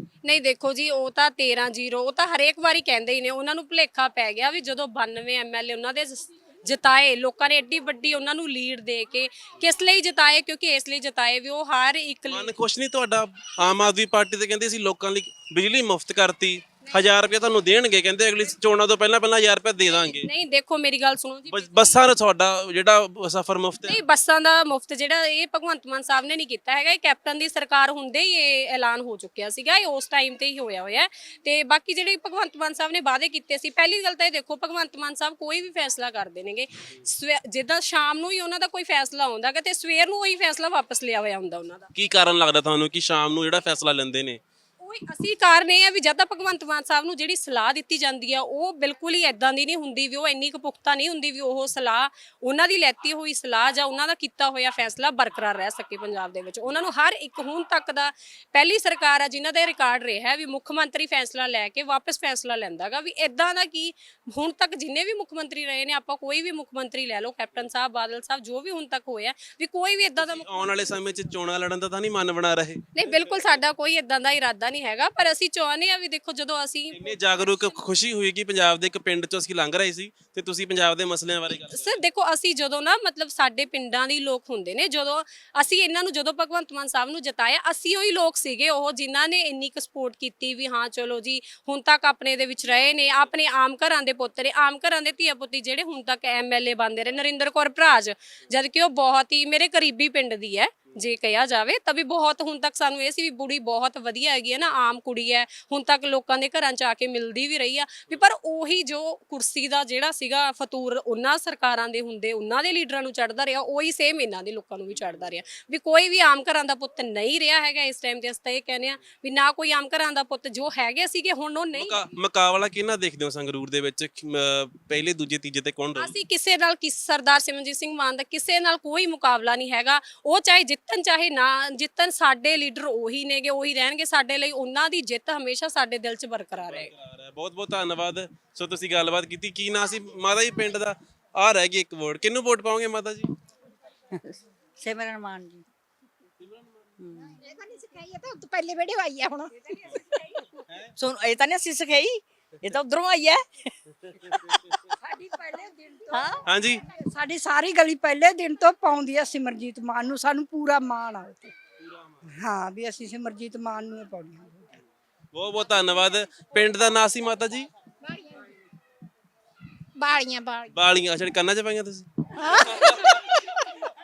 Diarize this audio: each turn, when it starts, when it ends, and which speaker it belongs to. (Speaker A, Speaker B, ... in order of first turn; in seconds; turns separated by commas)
Speaker A: 0.2-12.5, Speaker B: 12.3-20.3, Speaker A: 19.9-22.0, Speaker B: 21.5-24.0, Speaker A: 23.9-41.9, Speaker B: 42.0-44.4, Speaker A: 44.8-70.9, Speaker B: 70.2-73.6, Speaker A: 73.0-77.1, Speaker B: 76.9-82.0, Speaker A: 81.7-122.0, Speaker B: 92.6-93.3, Speaker B: 114.9-115.4, Speaker B: 121.8-126.1, Speaker A: 126.0-136.9, Speaker B: 136.7-143.3, Speaker C: 144.8-145.6, Speaker B: 146.4-146.9, Speaker C: 147.0-147.4, Speaker D: 147.4-149.5, Speaker E: 149.7-150.3, Speaker C: 151.0-153.4, Speaker B: 154.2-154.7, Speaker C: 154.3-154.6, Speaker E: 155.0-156.3, Speaker C: 156.1-156.4, Speaker B: 156.4-156.8, Speaker E: 157.1-161.5, Speaker B: 161.8-162.3, Speaker E: 162.3-164.7, Speaker B: 165.3-167.7, Speaker D: 168.0-168.5, Speaker D: 170.0-170.7, Speaker B: 170.7-173.5, Speaker D: 172.4-172.8